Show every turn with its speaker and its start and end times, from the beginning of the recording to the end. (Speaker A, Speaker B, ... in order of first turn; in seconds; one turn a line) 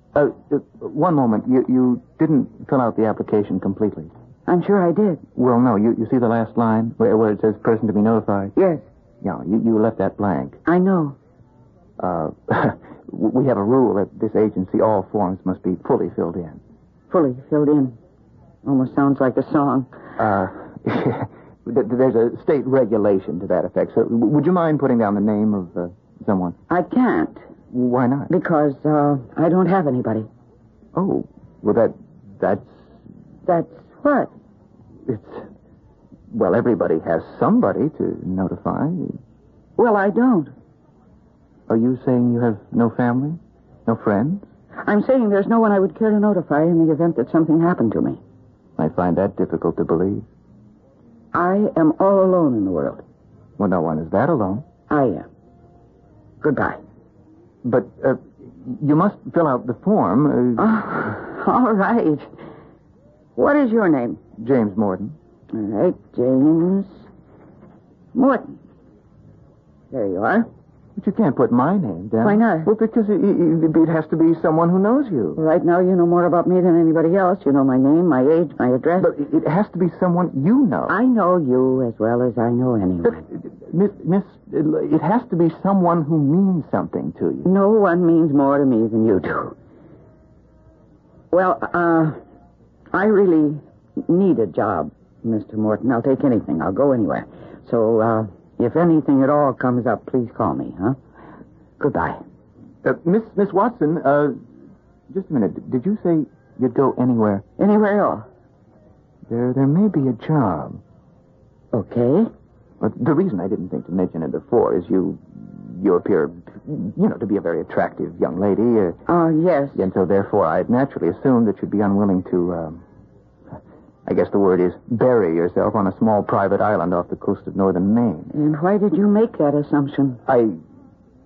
Speaker A: 0.1-4.1
Speaker B: 4.5-5.2
Speaker A: 5.4-8.6
Speaker B: 8.6-8.8
Speaker A: 9.2-10.6
Speaker B: 10.7-11.2
Speaker A: 12.0-16.6
Speaker B: 17.1-18.0
Speaker B: 18.6-19.9
Speaker A: 20.2-26.6
Speaker B: 26.7-27.4
Speaker A: 27.7-28.3
Speaker B: 28.3-30.3
Speaker A: 30.9-32.7
Speaker B: 33.5-34.3
Speaker A: 35.1-35.5
Speaker A: 36.3-39.2
Speaker B: 39.8-40.5
Speaker A: 41.7-44.5
Speaker B: 44.8-48.2
Speaker A: 48.8-50.3
Speaker B: 51.3-53.0
Speaker A: 53.6-54.6
Speaker B: 54.9-55.3
Speaker B: 56.4-56.8
Speaker A: 57.6-60.8
Speaker B: 60.6-62.3
Speaker B: 63.4-64.2
Speaker A: 64.4-65.2
Speaker B: 65.5-67.0
Speaker B: 68.1-68.5
Speaker B: 69.9-70.5
Speaker A: 71.0-75.4
Speaker B: 72.2-72.7
Speaker B: 75.4-79.1
Speaker A: 79.0-81.0
Speaker B: 80.9-83.2
Speaker A: 83.0-87.5
Speaker B: 87.5-89.5
Speaker B: 91.3-92.2
Speaker B: 92.9-101.0
Speaker B: 101.8-102.2
Speaker A: 102.8-104.4
Speaker A: 105.1-107.4
Speaker B: 107.6-108.3
Speaker A: 109.3-110.8
Speaker B: 111.7-112.3
Speaker A: 112.8-119.0
Speaker B: 119.1-119.8
Speaker A: 119.8-122.8
Speaker A: 124.0-128.3
Speaker B: 128.3-130.2
Speaker A: 130.3-130.6